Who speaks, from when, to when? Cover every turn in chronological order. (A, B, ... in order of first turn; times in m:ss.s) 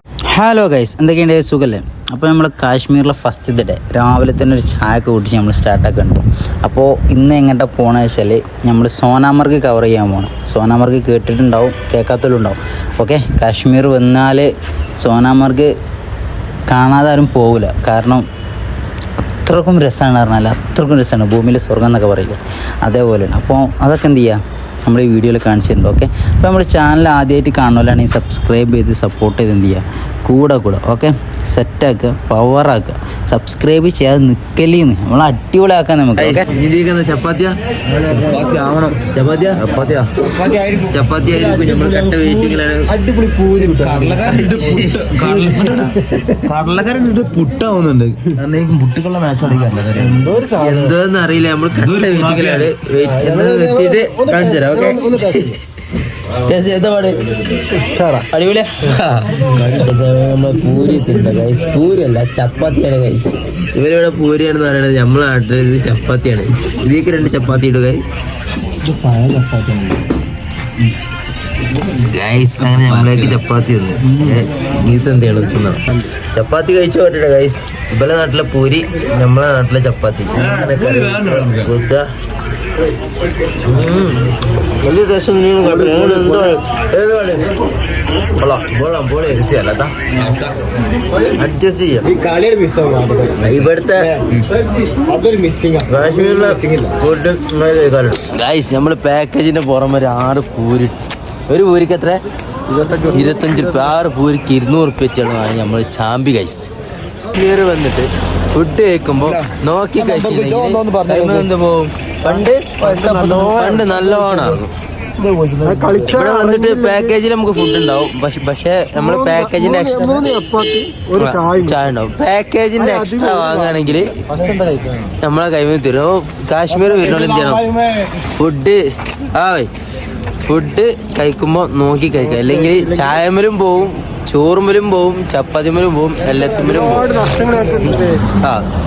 0:00.3-0:15.7 A
0:16.7-0:18.3 A
0:19.4-0:36.5 A
0:36.2-0:37.6 B
0:37.9-0:38.6 C
0:38.1-0:40.1 B
0:40.3-0:46.3 C
0:40.9-0:42.9 B
0:43.6-0:55.6 B
0:50.0-0:51.0 C
0:53.0-0:55.6 C
0:56.3-0:57.6 B
0:57.7-0:58.3 C
0:58.3-1:08.0 B
1:12.0-1:22.1 B
1:23.6-1:27.5 B
1:25.8-1:26.4 C
1:28.4-1:30.5 B
1:31.2-1:32.2 B
1:32.1-1:33.5 C
1:33.4-1:34.5 B
1:35.1-1:36.6 C
1:35.8-1:41.0 B
1:41.5-1:42.2 B
1:42.7-1:43.7 C
1:43.1-1:46.7 B
1:47.3-1:54.7 B
1:50.0-1:51.5 C
1:52.3-1:54.5 C
1:55.6-1:57.2 C
1:56.0-2:00.3 B
1:58.9-2:01.9 C
2:01.2-2:08.8 B
2:02.8-2:04.1 C
2:09.3-2:09.7 B
2:10.4-2:17.2 B
2:12.3-2:13.2 C
2:16.5-2:18.3 C
2:18.4-2:18.6 B